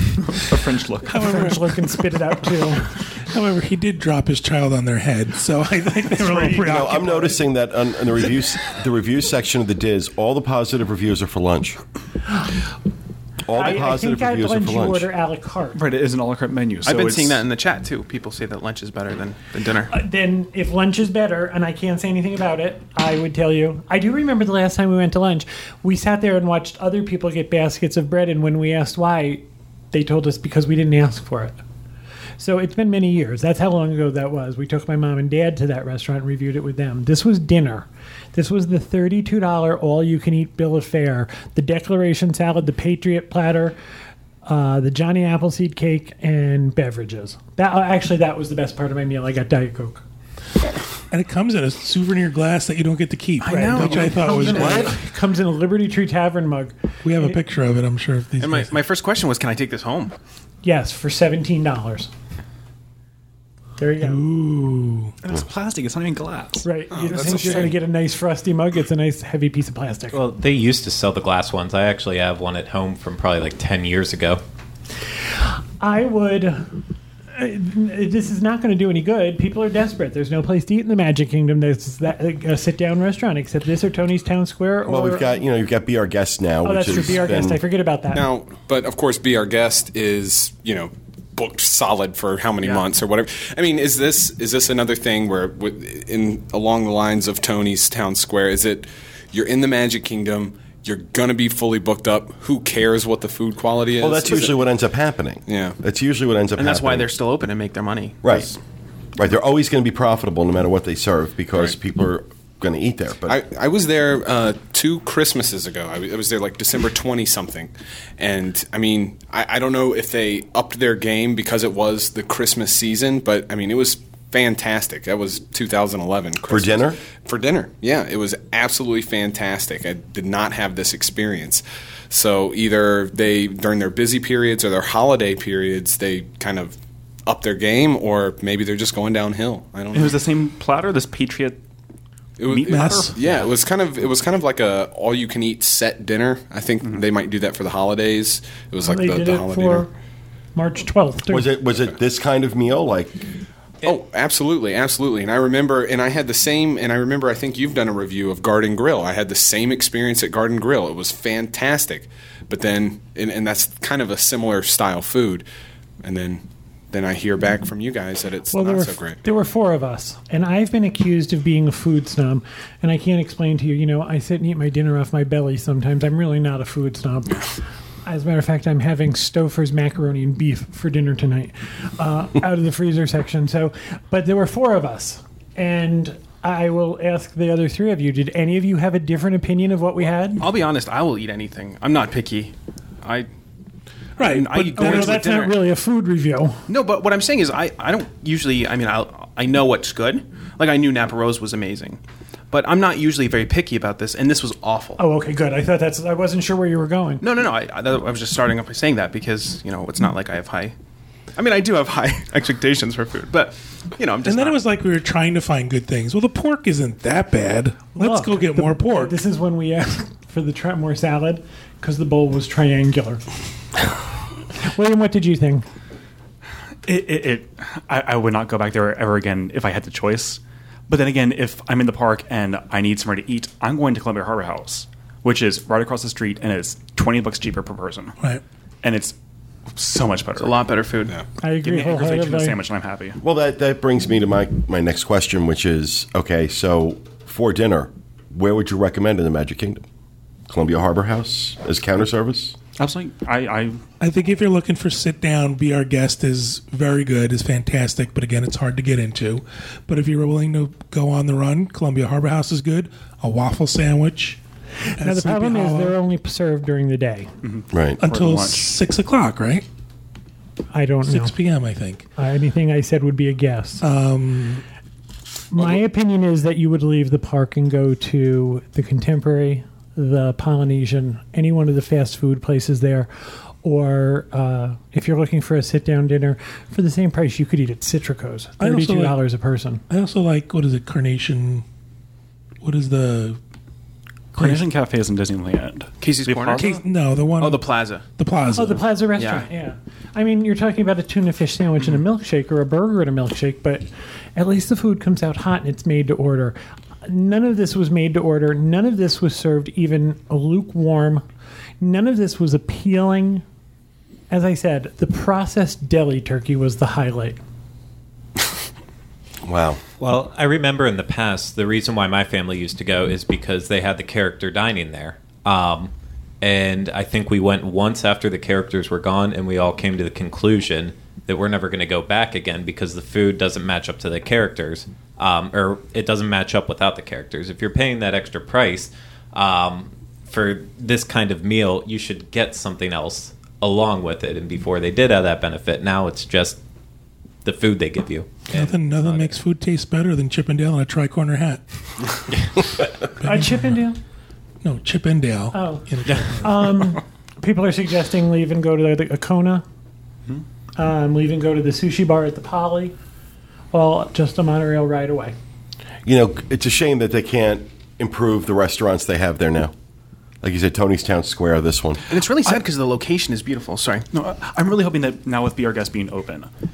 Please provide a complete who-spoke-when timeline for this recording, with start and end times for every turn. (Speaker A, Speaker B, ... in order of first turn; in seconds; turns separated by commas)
Speaker A: 0.3-1.3, Speaker B: 1.1-2.1, Speaker C: 1.1-2.9, Speaker B: 3.2-7.4, Speaker D: 6.5-11.8, Speaker D: 13.5-15.1, Speaker C: 13.5-15.8, Speaker A: 15.8-17.4, Speaker E: 16.9-19.9, Speaker C: 19.9-31.6, Speaker C: 32.4-43.8, Speaker C: 44.5-50.0, Speaker B: 51.1-55.0, Speaker E: 53.4-54.9, Speaker C: 53.5-57.4, Speaker B: 57.0-58.7, Speaker E: 58.4-60.1, Speaker C: 60.6-62.1, Speaker C: 63.8-64.2, Speaker B: 64.0-65.1, Speaker A: 65.2-66.7, Speaker C: 66.6-70.2, Speaker F: 66.9-67.8, Speaker A: 67.2-67.6, Speaker G: 70.1-74.4, Speaker C: 75.8-76.7, Speaker C: 77.3-85.3, Speaker D: 84.9-87.6, Speaker C: 86.6-88.2, Speaker F: 88.1-104.7, Speaker D: 104.0-107.1, Speaker F: 105.5-105.8, Speaker E: 106.6-108.6, Speaker D: 108.2-108.5, Speaker D: 109.2-113.4, Speaker F: 113.3-140.2, Speaker D: 126.5-127.0, Speaker A: 139.9-141.6, Speaker F: 142.4-149.9, Speaker A: 142.5-143.5, Speaker B: 142.7-143.2, Speaker C: 148.8-149.9, Speaker C: 150.6-151.5, Speaker D: 151.3-153.2, Speaker F: 153.8-165.5, Speaker F: 166.0-169.2, Speaker C: 168.5-177.5, Speaker C: 178.1-190.5, Speaker E: 190.4-193.3, Speaker B: 194.2-195.3, Speaker E: 194.2-195.6, Speaker C: 194.7-196.7, Speaker E: 196.7-205.0, Speaker C: 205.0-207.2, Speaker E: 207.2-210.7, Speaker E: 211.4-214.6, Speaker B: 214.2-219.2, Speaker C: 218.0-223.2, Speaker C: 224.6-225.7, Speaker A: 226.9-238.2, Speaker A: 238.8-239.2, Speaker A: 239.8-240.6, Speaker E: 240.4-241.2, Speaker C: 241.4-242.6, Speaker A: 241.6-243.2, Speaker D: 243.2-249.8, Speaker D: 250.5-252.6, Speaker A: 252.8-253.8, Speaker B: 254.0-264.4, Speaker B: 265.0-266.0, Speaker C: 265.0-267.3, Speaker A: 267.4-268.7, Speaker D: 267.7-268.0, Speaker B: 268.0-269.6, Speaker C: 270.7-271.4, Speaker B: 271.1-272.1, Speaker C: 272.2-273.9, Speaker B: 273.8-274.6, Speaker C: 275.5-283.1, Speaker C: 283.6-289.8, Speaker B: 288.6-289.2, Speaker B: 289.9-291.6, Speaker B: 292.6-293.4, Speaker A: 294.3-296.8, Speaker B: 294.4-294.7, Speaker E: 296.0-298.0, Speaker B: 296.5-298.8, Speaker C: 298.5-311.2, Speaker E: 299.2-299.5, Speaker C: 311.8-313.4, Speaker C: 314.3-317.4, Speaker D: 319.4-319.8, Speaker G: 320.0-346.6, Speaker G: 347.4-349.4, Speaker B: 348.5-352.2, Speaker B: 353.1-353.7, Speaker C: 353.2-354.0, Speaker B: 354.6-356.8, Speaker C: 355.5-359.6, Speaker C: 360.8-362.9, Speaker C: 363.7-365.4, Speaker D: 366.1-369.7, Speaker D: 370.4-372.1, Speaker E: 372.1-374.1, Speaker A: 374.1-376.5